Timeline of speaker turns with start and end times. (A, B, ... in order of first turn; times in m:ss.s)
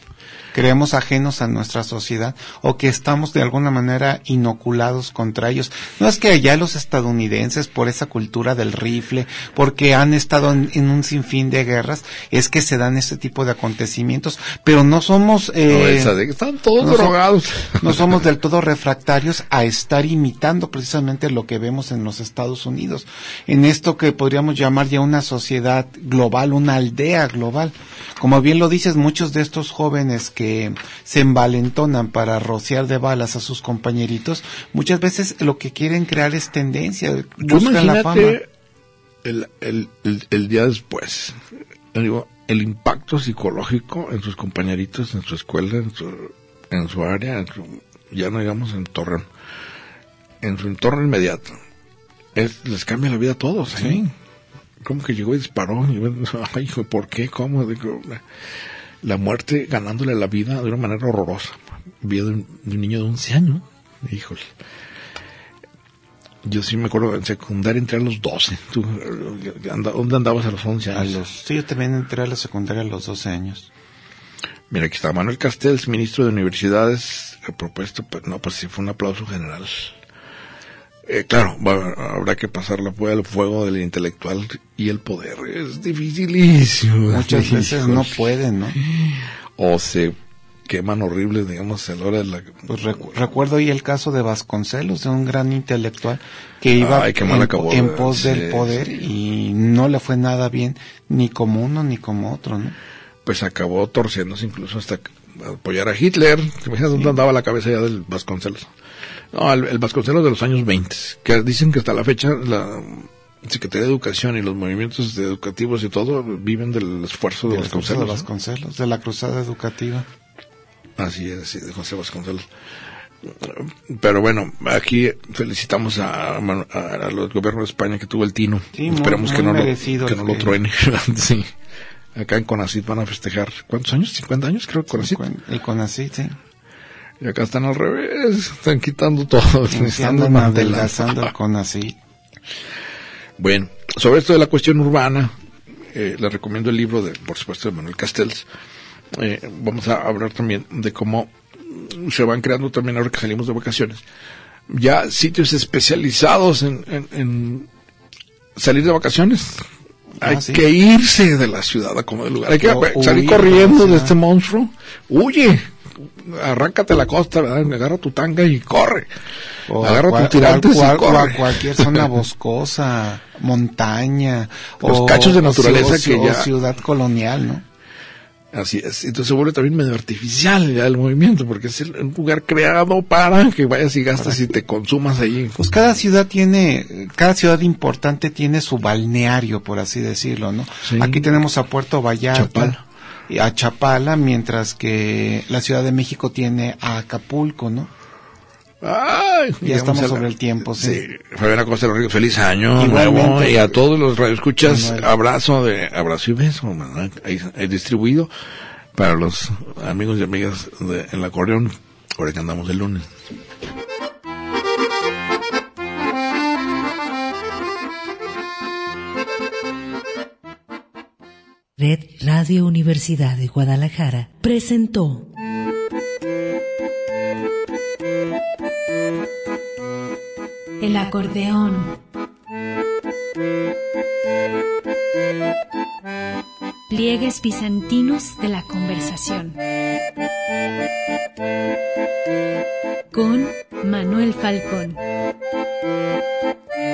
0:00.5-0:16.1 A
0:15.7-0:18.2 B
0:16.8-0:17.2 A
0:17.8-0:38.4 A
0:37.4-0:38.4 B
0:39.2-0:41.4 B
0:41.9-0:49.3 B
0:50.4-0:51.6 B
0:52.3-0:54.1 B
0:53.7-0:54.0 A
0:54.8-0:58.3 B
0:59.0-1:04.5 B
1:06.4-1:11.2 B
1:10.9-1:13.7 A
1:14.7-1:20.0 B
1:21.0-1:32.7 B
1:27.1-1:28.8 A
1:32.7-1:42.7 A
1:36.8-1:38.8 B
1:43.2-1:48.7 B
1:49.3-1:58.3 B
1:57.4-2:00.1 A
2:01.0-2:02.5 B
2:03.2-2:11.5 B
2:08.7-2:10.6 A
2:12.1-2:15.2 B
2:14.9-2:16.4 A
2:17.2-2:21.3 B
2:19.7-2:22.0 A
2:23.4-2:25.3 B
2:25.9-2:28.4 B
2:29.1-2:34.0 B
2:34.7-2:37.7 B
2:38.6-2:39.6 B
2:40.2-2:40.6 A
2:40.2-2:49.1 B
2:42.6-2:44.1 A
2:49.6-2:57.6 A
2:49.8-2:52.1 B
2:54.8-2:56.5 B
2:58.5-3:05.6 B
3:05.6-3:17.9 A
3:10.8-3:11.4 B
3:12.3-3:12.8 B
3:18.8-3:28.3 B
3:19.6-3:21.0 A
3:22.8-3:23.8 A
3:24.6-3:25.1 A
3:28.9-3:33.1 B
3:41.8-3:45.3 C
3:50.8-3:52.0 D
3:56.9-3:59.6 D
4:03.1-4:05.0 D